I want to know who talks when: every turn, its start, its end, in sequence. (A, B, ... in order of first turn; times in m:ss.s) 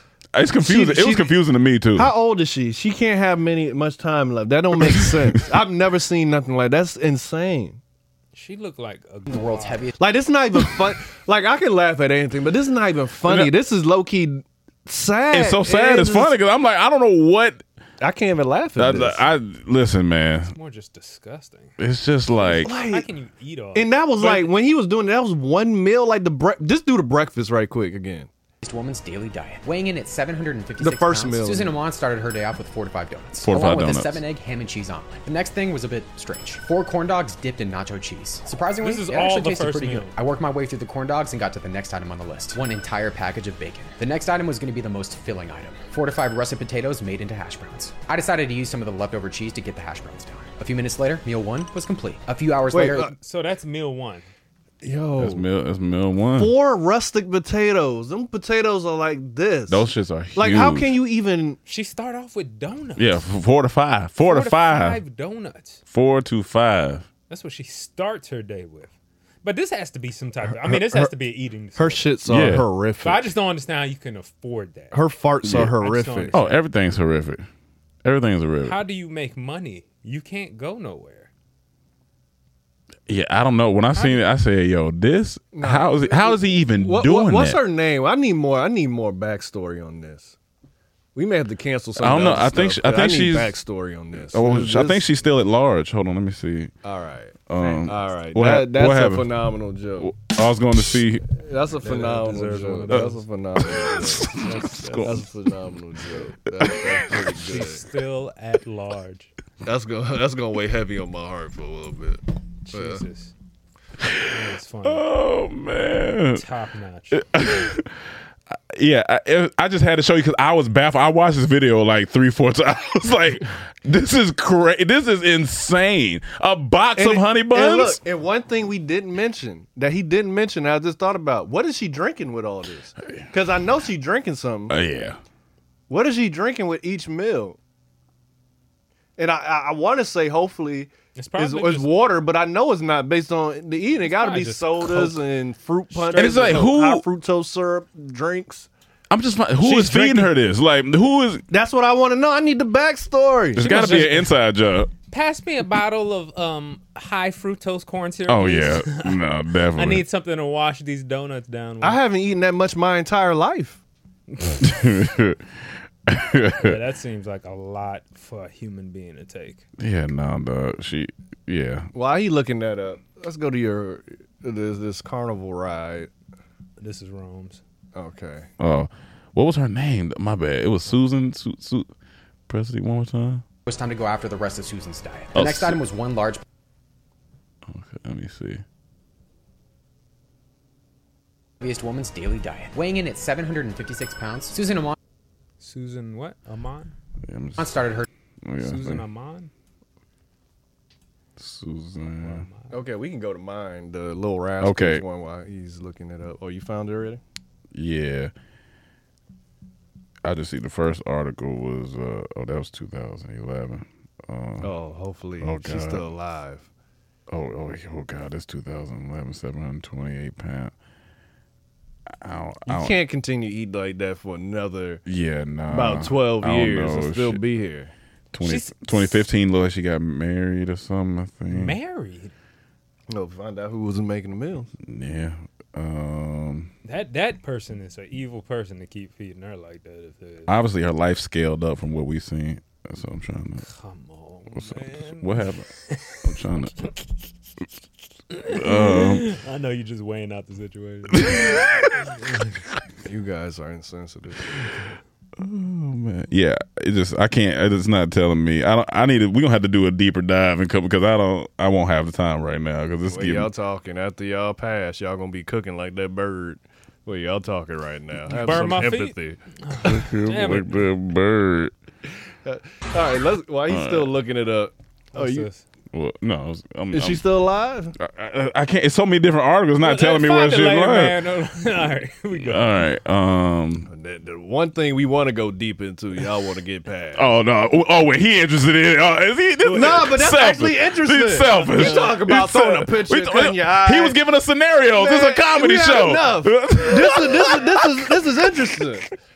0:00.3-0:02.1 A
0:00.6-0:01.3 B
0:02.0-0:07.8 B
0:04.8-0:05.2 A
0:08.3-0:09.8 C
0:09.3-0:10.0 D
0:10.0-0:16.3 B
0:13.2-0:13.5 A
0:15.3-0:17.6 A
0:18.0-0:19.2 B
0:18.8-0:20.5 A
0:20.5-0:21.7 C
0:21.8-0:22.7 A
0:22.4-0:24.5 C
0:22.5-0:23.1 B
0:23.7-0:28.3 B
0:28.6-0:53.1 D
0:30.8-0:31.7 B
0:33.4-0:34.2 A
0:38.8-0:40.2 C
0:52.7-0:53.1 B
0:53.0-0:54.3 C
0:54.8-0:55.4 B
0:55.2-0:56.5 A
0:56.4-1:01.6 B
0:59.7-1:01.0 A
1:01.6-1:03.3 C
1:03.0-1:05.0 A
1:04.3-1:05.8 C
1:05.9-1:07.1 A
1:07.3-1:08.9 C
1:09.4-1:12.1 C
1:10.5-1:11.1 B
1:11.7-1:13.3 B
1:12.2-1:12.6 A
1:13.0-1:15.0 C
1:14.9-1:16.3 B
1:15.4-1:15.7 A
1:15.6-1:16.6 C
1:16.3-1:17.4 A
1:18.0-1:18.8 A
1:18.6-1:21.3 C
1:23.1-1:27.6 A
1:23.9-1:24.2 C
1:25.5-1:30.3 B
1:31.1-1:35.0 B
1:32.0-1:33.6 A
1:34.1-1:36.7 A
1:36.8-1:40.1 B
1:37.5-1:39.3 A
1:40.0-1:41.2 A
1:41.3-1:44.4 B
1:41.8-1:43.2 C
1:42.9-1:45.1 A
1:44.4-1:45.1 C
1:44.9-1:47.8 B
1:46.6-1:47.2 A
1:47.3-1:49.3 C
1:49.6-1:52.2 B
1:52.6-1:53.3 C
1:52.7-1:53.0 B
1:54.3-1:55.1 C
1:54.8-1:56.4 A
1:56.3-1:57.4 C
1:57.1-1:57.9 A
1:58.5-2:08.0 A
2:07.0-2:14.8 B
2:14.7-2:15.2 A
2:15.9-2:17.6 B
2:19.2-2:28.7 B
2:21.2-2:21.9 C
2:24.0-2:25.2 C
2:25.9-2:26.7 C
2:26.1-2:27.0 A
2:29.1-2:31.4 A
2:29.6-2:30.3 C
2:31.5-2:33.7 B
2:33.5-2:34.9 A
2:33.6-2:34.3 C
2:35.1-2:42.0 C
2:38.2-2:40.0 A
2:41.8-2:43.8 B
2:44.3-2:44.7 C
2:44.6-2:45.4 A
2:46.1-2:46.8 A
2:46.6-2:49.6 C
2:49.8-2:51.9 A
2:51.9-2:56.1 B
2:56.8-2:57.6 C
2:57.9-2:58.5 B
2:58.6-3:01.9 A
3:02.5-3:03.4 A
3:03.6-3:06.4 D
3:05.3-3:05.8 A
3:07.7-3:08.6 A
3:11.6-3:14.9 D
3:15.6-3:16.9 C
3:17.2-3:17.8 A
3:17.6-3:18.0 D
3:18.4-3:19.0 A
3:18.6-3:19.5 C
3:21.4-3:22.5 A
3:22.2-3:22.7 C
3:22.7-3:27.2 B
3:24.6-3:25.0 A
3:27.7-3:28.3 A
3:30.2-3:34.7 A
3:34.6-3:36.7 B
3:35.4-3:36.0 A
3:37.3-3:40.7 A
3:42.2-3:43.0 A
3:42.7-3:45.0 B
3:45.0-3:47.4 A
3:45.7-3:47.9 B
3:48.3-3:51.8 A
3:48.4-3:49.1 C
3:51.5-3:52.3 C
3:53.1-3:54.7 B
3:54.8-3:56.7 A
3:56.8-4:00.5 C
4:00.5-4:03.6 A
4:03.6-4:07.0 C
4:04.6-4:05.6 A
4:06.2-4:06.8 A
4:08.3-4:11.7 C
4:08.5-4:09.3 A
4:11.2-4:11.9 A
4:13.0-4:14.6 B
4:15.4-4:23.5 A
4:23.0-4:30.0 B
4:28.3-4:28.8 A
4:28.3-4:30.8 C
4:29.8-4:31.7 A
4:32.4-4:35.5 B
4:33.7-4:34.1 A
4:35.1-4:35.6 C
4:35.9-4:37.2 A
4:36.9-4:37.9 B
4:38.0-4:41.2 A
4:39.8-4:42.8 C
4:42.3-4:43.9 A
4:43.9-4:47.2 B
4:47.2-4:58.3 A
4:49.6-4:49.9 C
4:49.7-4:54.2 B
4:51.6-4:52.1 C
4:54.9-4:59.1 B